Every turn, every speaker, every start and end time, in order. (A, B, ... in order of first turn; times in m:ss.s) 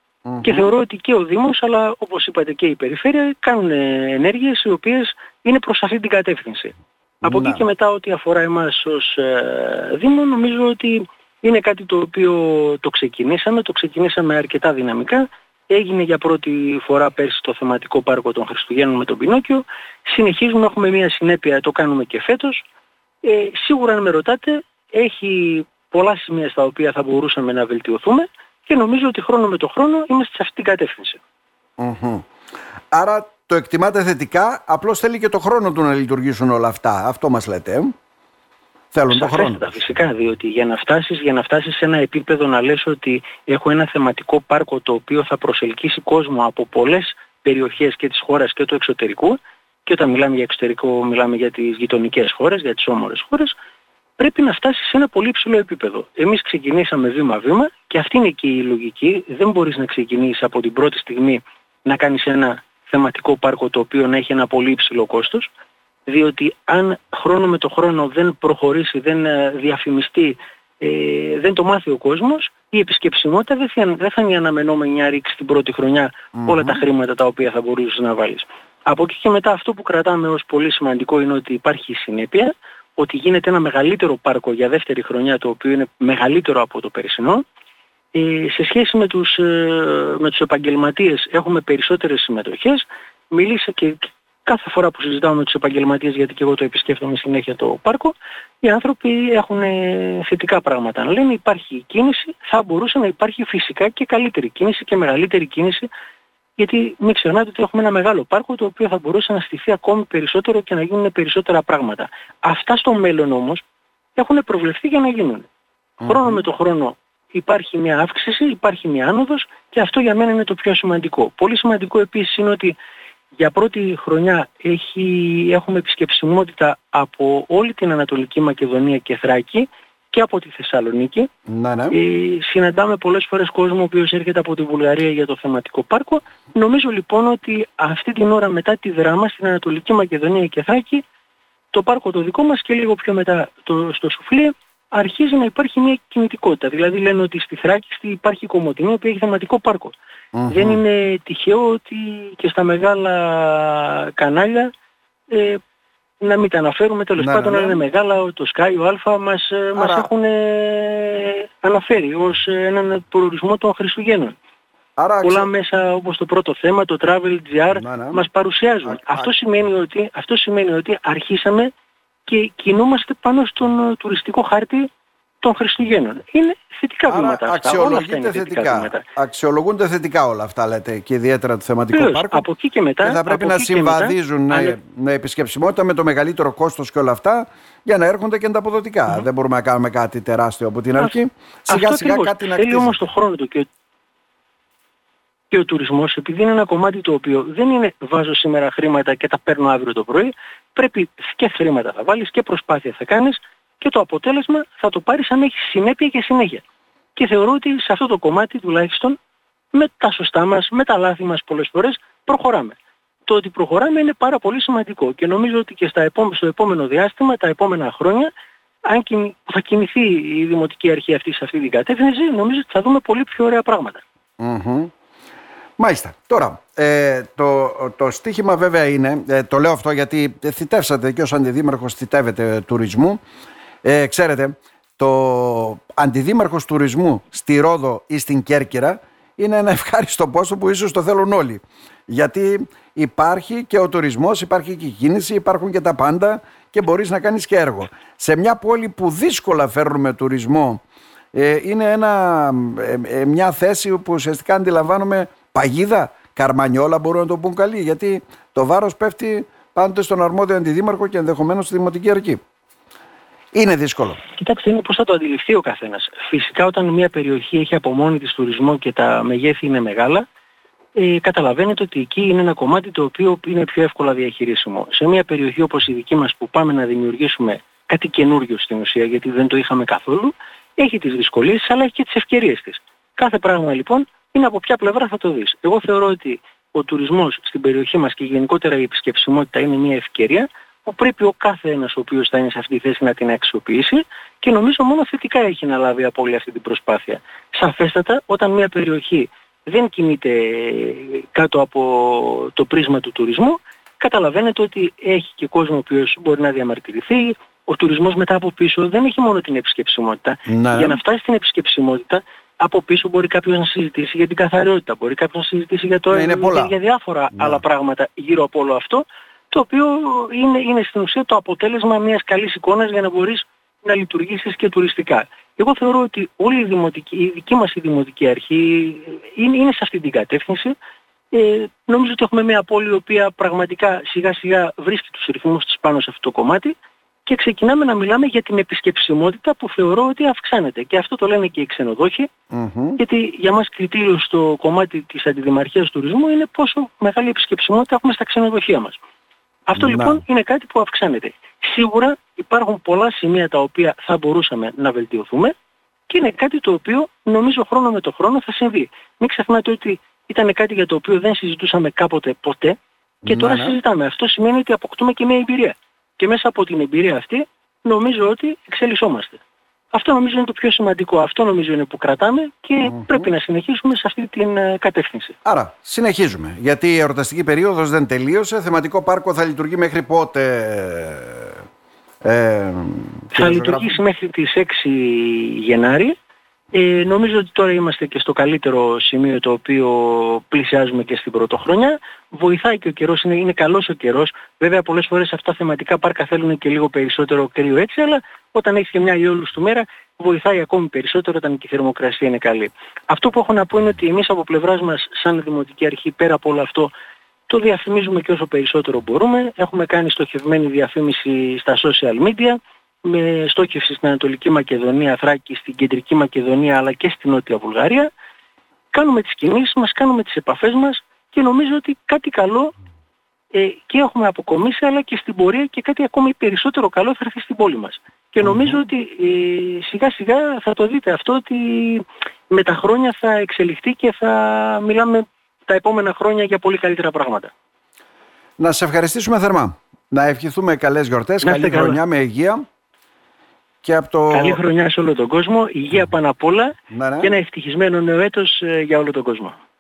0:00.3-0:00.7 A
0:00.4-0:22.6 B
0:07.2-0:07.6 A
0:23.2-0:31.2 B
0:31.8-0:32.2 A
0:32.9-0:37.9 A
0:38.9-0:39.7 A
0:39.1-0:53.6 B
0:54.2-1:05.5 B
1:06.1-1:27.4 B
1:16.3-1:16.8 A
1:28.1-1:45.9 B
1:46.6-1:53.6 B
1:54.2-1:55.5 B
1:56.0-1:56.4 A
1:56.0-2:02.8 B
2:03.4-2:11.3 B
2:11.5-2:12.0 A
2:11.9-2:21.0 B
2:21.7-2:29.9 B
2:30.3-2:30.8 A
2:30.5-2:34.7 B
2:35.3-2:35.6 B
2:36.2-2:44.3 B
2:37.2-2:37.8 A
2:39.8-2:40.1 A
2:45.0-2:45.5 A
2:45.2-2:51.7 B
2:47.7-2:48.2 A
2:48.9-2:49.3 A
2:52.3-2:54.9 B
2:55.4-2:59.0 B
2:57.1-3:02.4 A
3:01.9-3:04.8 B
3:03.0-3:13.1 A
3:11.7-3:13.7 B
3:15.5-3:26.6 B
3:27.2-3:29.2 B
3:29.7-3:32.8 B
3:33.3-3:38.3 B
3:38.9-3:44.0 B
3:44.4-3:44.9 A
3:45.8-3:53.2 A
3:53.8-4:10.8 A
4:11.3-4:22.4 A
4:23.6-4:24.2 A
4:24.4-4:30.2 B
4:31.0-5:30.8 B
5:10.5-5:11.0 A
5:16.1-5:16.8 A
5:17.3-5:17.6 A
5:31.3-5:36.7 B
5:37.2-5:42.3 B
5:42.5-5:43.0 A
5:43.0-5:49.0 B
5:49.7-5:55.5 B
5:49.8-5:50.2 A
5:56.1-6:09.4 B
6:03.2-6:03.8 A
6:09.9-6:15.3 B
6:12.9-6:13.2 A
6:15.4-6:21.6 A
6:22.2-6:24.0 A
6:23.3-6:26.1 B
6:26.7-6:46.9 B
6:47.5-6:58.1 B
6:58.9-7:02.7 B
7:03.5-7:17.5 B
7:08.4-7:08.8 A
7:18.6-7:22.6 A
7:21.4-7:22.0 B
7:23.8-7:24.6 A
7:24.3-7:29.6 B
7:26.9-7:27.3 A